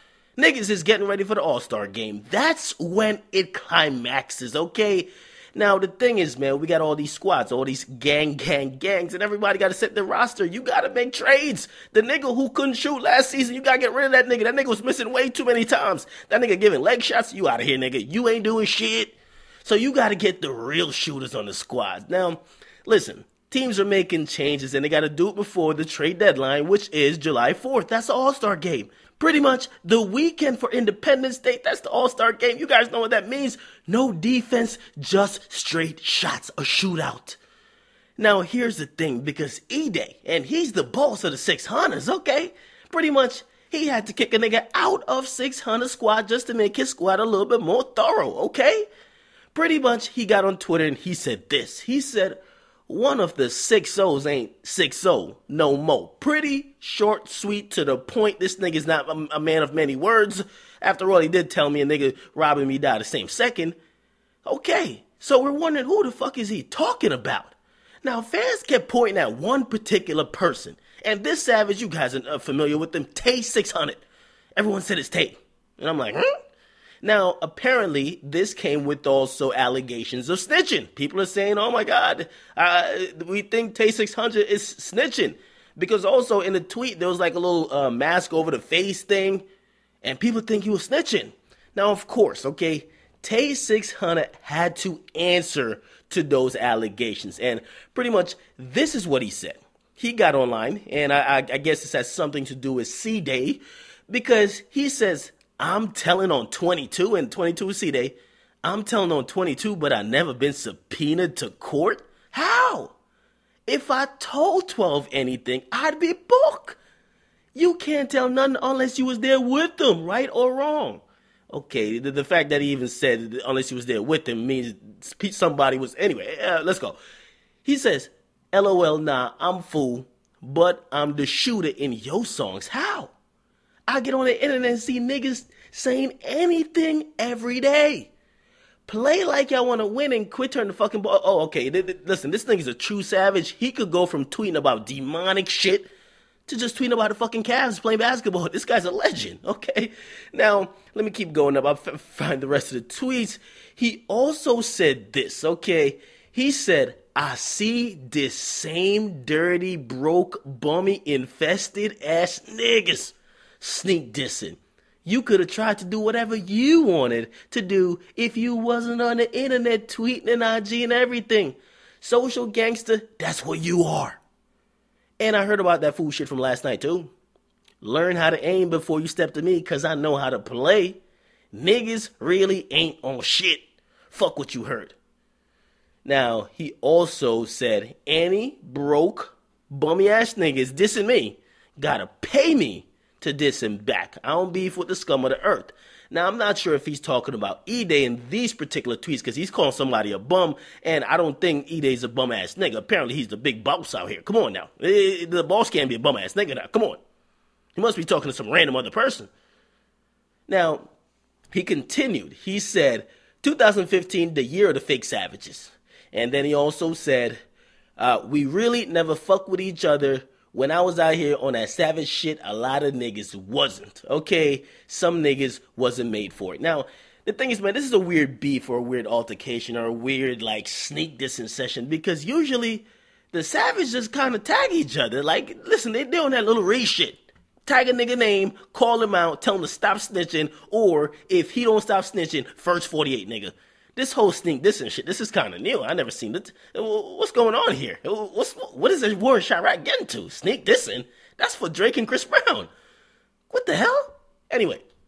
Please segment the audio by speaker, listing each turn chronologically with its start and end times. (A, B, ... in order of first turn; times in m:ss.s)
0:00.4-0:37.4 A
0:38.2-0:48.9 A
0:49.5-1:03.8 A
1:04.4-1:14.0 A
1:14.6-1:16.3 A
1:17.0-1:29.4 A
1:30.0-1:53.0 A
1:53.7-1:56.8 A
1:57.6-2:07.0 A
2:07.6-2:13.1 A
2:13.9-2:18.1 A
2:18.9-2:25.9 A
2:26.5-2:54.2 A
2:55.2-2:57.1 A
2:57.8-3:01.0 A
3:01.5-3:05.0 A
3:06.0-3:27.0 A
3:27.8-3:29.3 A
3:30.5-3:30.9 A
3:31.5-3:37.4 A
3:38.0-4:12.7 A
4:13.5-4:14.8 A